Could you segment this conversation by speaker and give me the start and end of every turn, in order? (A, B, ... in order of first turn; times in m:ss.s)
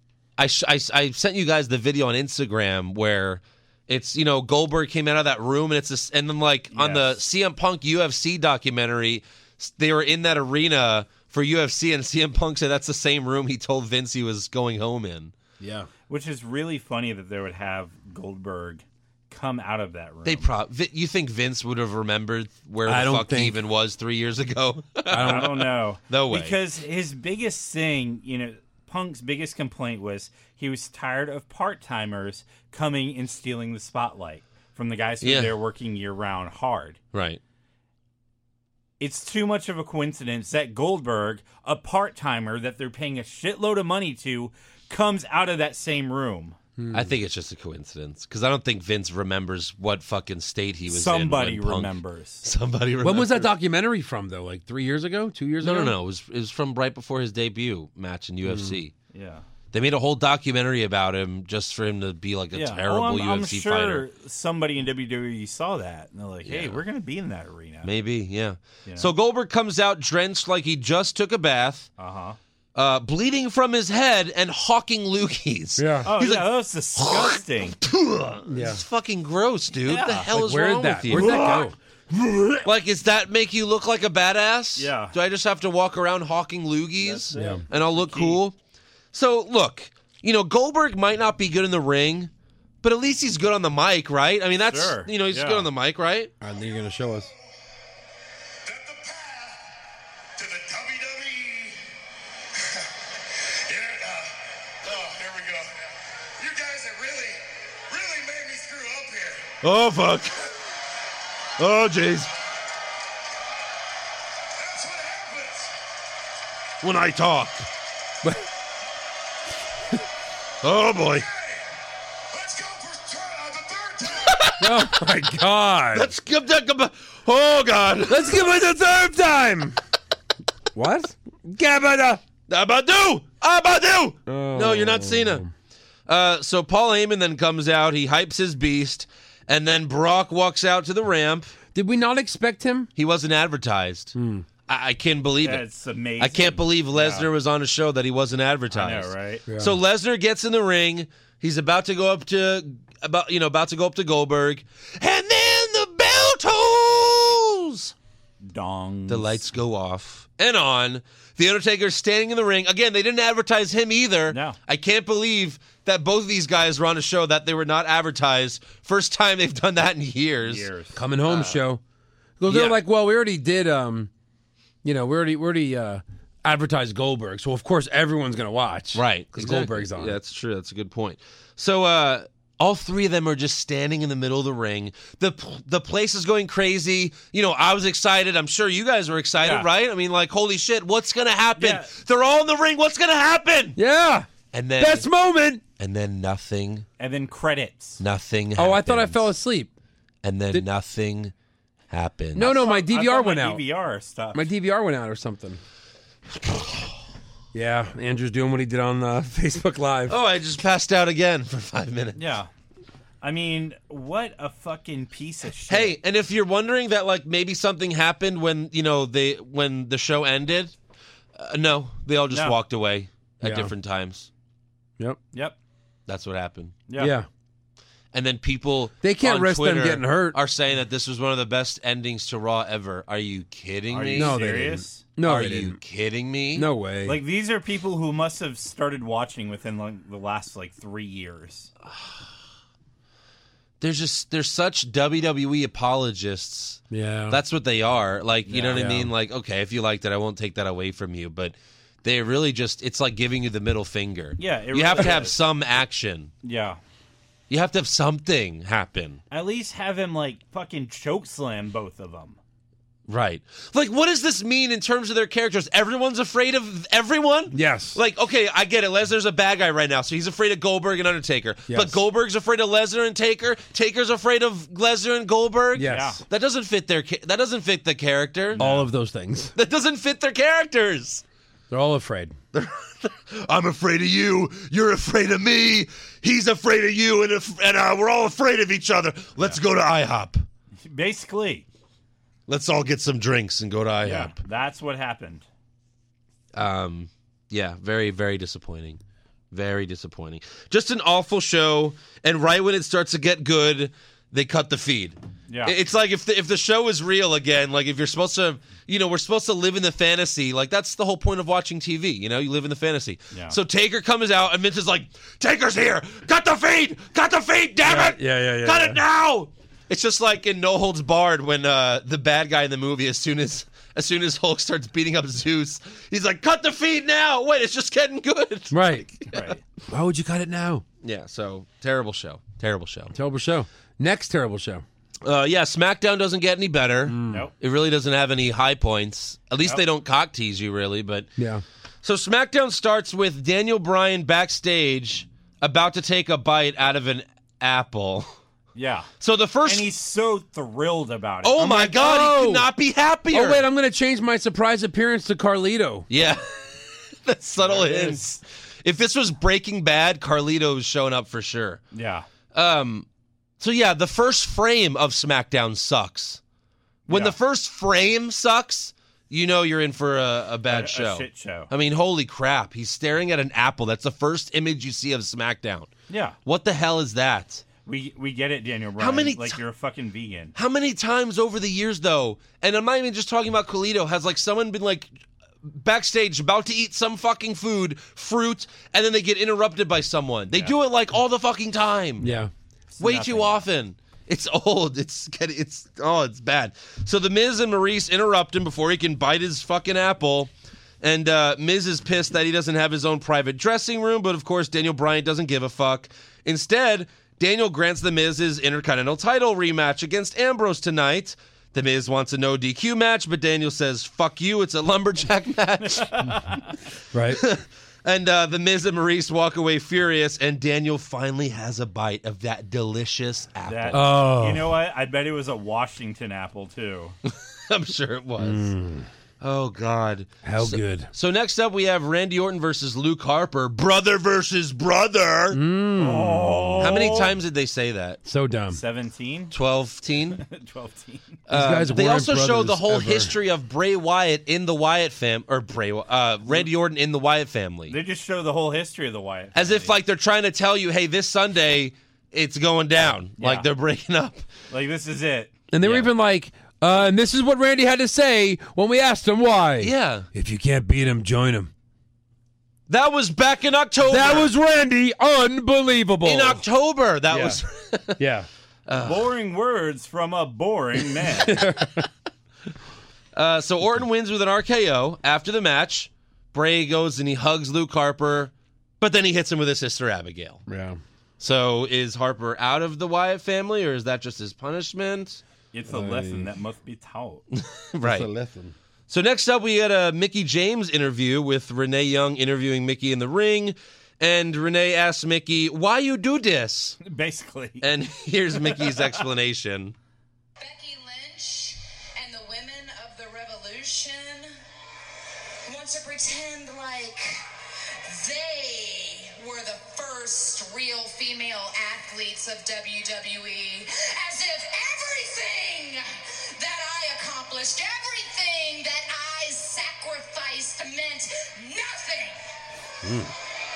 0:00.4-0:15.3 A
0:06.7-0:07.2 B
0:15.6-0:15.9 C
0:16.1-0:20.5 B
0:20.2-0:26.6 A
0:22.8-0:23.6 C
0:25.1-0:25.6 C
0:25.1-0:37.0 B
0:35.2-0:35.5 A
0:37.1-0:37.4 A
0:39.0-0:46.6 B
0:46.8-0:47.1 C
0:46.9-0:53.5 A
0:50.9-0:52.5 B
0:53.0-0:56.0 C
0:55.6-0:58.9 A
0:58.4-0:58.8 C
0:59.1-0:59.4 B
0:59.7-1:04.0 A
1:02.5-1:07.9 B
1:06.4-1:06.8 A
1:07.8-1:11.9 A
1:08.8-1:09.1 B
1:12.0-1:12.4 B
1:12.7-1:21.6 A
1:15.8-1:16.1 C
1:16.0-1:17.8 B
1:18.5-1:18.8 C
1:19.8-1:20.3 B
1:20.3-1:21.8 C
1:21.1-1:21.6 B
1:22.6-1:28.5 A
1:24.8-1:25.1 B
1:27.0-1:28.4 B
1:27.3-1:27.6 C
1:29.1-1:32.3 A
1:32.8-1:36.3 A
1:34.7-1:35.7 B
1:36.4-1:37.3 C
1:38.6-1:39.7 D
1:40.4-1:41.8 D
1:42.5-1:49.5 D
1:49.6-1:50.4 A
1:51.6-1:52.3 A
1:54.6-1:55.8 D
1:56.8-1:57.7 A
1:58.2-1:58.5 C
2:00.6-2:01.3 A
2:00.8-2:04.5 D
2:04.3-2:04.7 A
2:04.6-2:06.1 C
2:05.9-2:08.5 A
2:08.0-2:09.8 C
2:10.7-2:12.2 C
2:12.5-2:15.4 A
2:14.2-2:15.5 C
2:16.1-2:21.5 A
2:21.7-2:22.9 C
2:23.0-2:24.1 A
2:24.1-2:24.5 C
2:24.7-2:25.6 A
2:25.4-2:27.3 B
2:26.2-2:37.9 A
2:28.7-2:29.5 B
2:29.5-2:29.8 C
2:38.4-2:39.4 B
2:39.1-2:50.7 A
2:44.3-2:44.6 B
2:50.4-2:51.6 B
2:50.9-2:51.8 C
2:52.4-2:54.1 C
2:52.5-2:52.8 A
2:54.8-3:00.2 C
2:58.9-3:13.8 A
3:09.4-3:09.7 B
3:11.6-3:11.9 B
3:13.8-3:15.6 C
3:14.5-3:15.1 A
3:15.8-3:16.8 A
3:17.0-3:18.0 B
3:18.0-3:19.3 A
3:18.6-3:19.7 C
3:20.2-3:21.3 A
3:21.9-3:22.6 A
3:22.3-3:23.6 C
3:22.4-3:24.5 B
3:24.3-3:25.6 C
3:27.5-3:30.2 C
3:30.1-3:32.3 A
3:32.2-3:32.5 B
3:33.2-3:36.0 B
3:35.7-3:40.7 A
3:41.4-3:44.3 A
3:42.3-3:42.6 B
3:43.4-3:43.7 C
3:46.1-3:46.8 A
3:46.9-3:47.1 B
3:47.0-3:47.3 C
3:48.1-3:54.4 A
3:49.0-3:50.4 C
3:53.9-3:55.0 B
3:54.1-3:55.8 C
3:55.2-3:56.7 A
3:56.5-3:57.2 C
3:57.0-4:01.7 B
4:03.8-4:16.3 A
4:06.9-4:07.4 C
4:08.5-4:08.9 B
4:08.7-4:09.1 C
4:14.4-4:15.4 B
4:16.4-4:16.8 B
4:17.5-4:19.2 A
4:19.3-4:22.4 B
4:23.1-4:38.6 A
4:27.5-4:28.0 C
4:31.7-4:32.0 C
4:35.7-4:36.2 C
4:35.8-4:36.2 B
4:38.5-4:38.9 B
4:38.6-4:39.5 C
4:39.5-4:41.2 A
4:41.7-4:42.4 C
4:42.5-4:50.4 A
4:50.8-4:51.6 B
4:52.5-4:54.4 A
4:54.0-4:55.4 B
4:56.5-4:59.0 A
4:59.5-5:29.5 A
5:05.5-5:05.8 B
5:17.8-5:19.0 C
5:28.7-5:29.1 C
5:29.3-5:29.6 B
5:29.9-5:30.8 C
5:31.0-5:33.1 A
5:33.1-5:34.8 C
5:35.2-5:41.3 A
5:37.0-5:37.5 C
5:37.3-5:37.5 B
5:41.4-5:41.6 C
5:42.0-5:48.3 A
5:48.7-5:49.1 B
5:49.2-5:49.9 A
5:49.6-5:51.8 B
5:51.4-5:53.6 A
5:51.6-5:52.7 C
5:53.3-5:56.1 C
5:56.1-6:01.8 A
5:57.6-5:58.4 B
6:01.9-6:02.2 B
6:02.5-6:03.0 A
6:03.6-6:06.4 A
6:07.1-6:07.4 B
6:07.1-6:15.9 A
6:10.7-6:11.7 B
6:16.1-6:16.4 B
6:16.4-6:17.6 A
6:17.8-6:20.5 B
6:19.0-6:19.6 A
6:20.6-6:25.1 A
6:25.6-6:32.3 A
6:32.2-6:32.5 C
6:32.9-6:33.6 B
6:33.0-6:40.5 A
6:41.0-6:56.3 A
6:55.8-6:56.7 B
6:57.1-6:57.4 C
6:57.3-7:04.0 A
7:03.6-7:07.2 B
7:03.9-7:04.7 C
7:07.2-7:08.7 A
7:08.4-7:09.1 C
7:09.4-7:15.6 A
7:10.4-7:11.1 C
7:15.5-7:17.0 C
7:16.0-7:17.3 B
7:16.8-7:18.2 A
7:18.2-7:18.8 C
7:18.7-7:19.5 B
7:19.5-7:20.4 A
7:20.3-7:21.4 B
7:21.5-7:28.0 A
7:21.5-7:23.3 C
7:27.9-7:29.9 B
7:29.5-7:34.4 A
7:33.4-7:33.7 B
7:34.7-7:36.1 B
7:35.7-7:41.7 C
7:39.8-7:40.3 A
7:42.9-7:44.5 A
7:44.0-7:46.6 C
7:46.2-7:48.2 A
7:47.3-7:47.6 C
7:48.2-7:48.5 C
7:48.9-7:49.3 A
7:49.0-7:51.7 B
7:51.4-7:52.1 C
7:53.3-8:00.6 A
8:00.7-8:01.0 C
8:01.4-8:05.4 A
8:05.7-8:07.4 B
8:05.9-8:06.5 C
8:07.5-8:08.3 A
8:08.0-8:08.7 C
8:09.1-8:17.0 A
8:17.0-8:17.8 B
8:17.8-8:19.9 A
8:18.5-8:19.1 B
8:20.6-8:24.5 E
8:25.6-8:27.4 E
8:28.1-8:36.0 E
8:36.6-8:42.4 E
8:43.0-8:43.3 C